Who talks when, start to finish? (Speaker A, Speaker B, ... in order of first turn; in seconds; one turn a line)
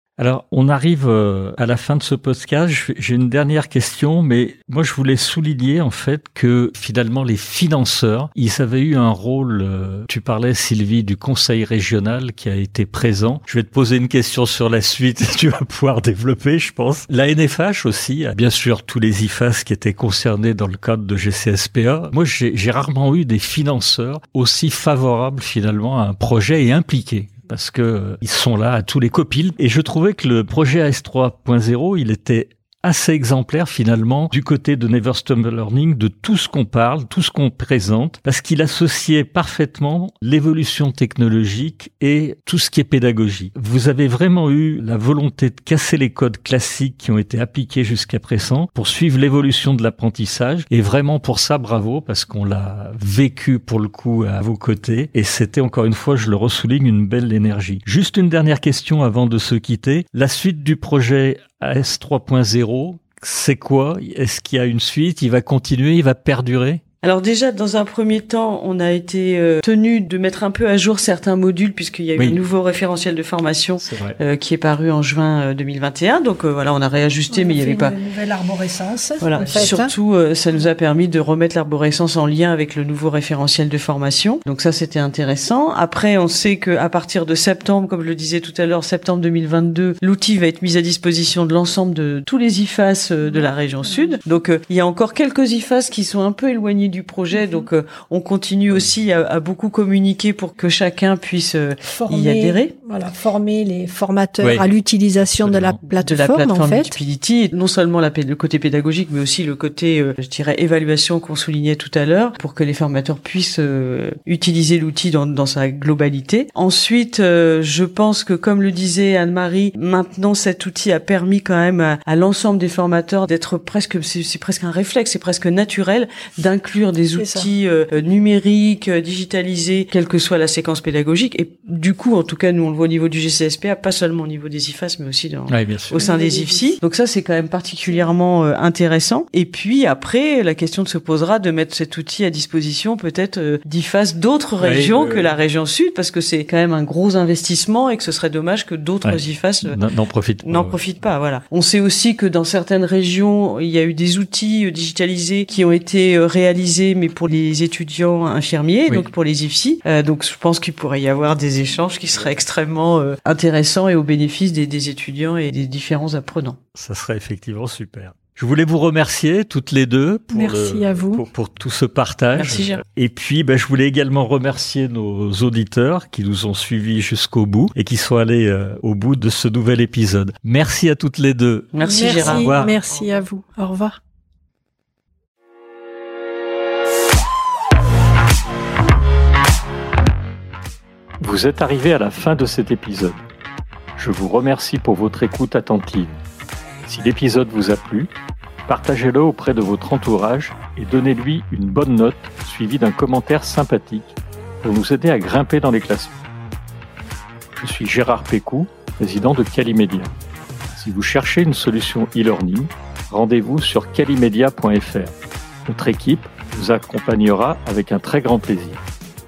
Speaker A: 0.2-66.8
Speaker B: 67.0-77.9
Speaker A: 73.8-74.2
Speaker C: 77.3-79.9
Speaker B: 79.2-102.7
Speaker A: 79.4-79.7
Speaker C: 93.8-94.1
Speaker C: 97.3-97.6
Speaker C: 101.9-107.0
Speaker A: 104.4-104.7
Speaker A: 105.2-105.8
Speaker B: 106.0-149.8
Speaker C: 127.2-127.5
Speaker A: 135.5-136.0
Speaker C: 135.9-136.8
Speaker A: 144.6-145.3
Speaker A: 149.0-150.8
Speaker B: 150.4-166.6
Speaker A: 166.7-182.7
Speaker C: 170.3-171.2
Speaker B: 172.3-172.8
Speaker B: 181.7-182.6
Speaker C: 181.8-184.0
Speaker A: 191.2-193.2
Speaker A: 194.0-196.2
Speaker A: 196.8-198.1
Speaker A: 198.7-206.2
Speaker A: 207.6-210.1
Speaker A: 210.7-215.1
Speaker A: 215.7-218.8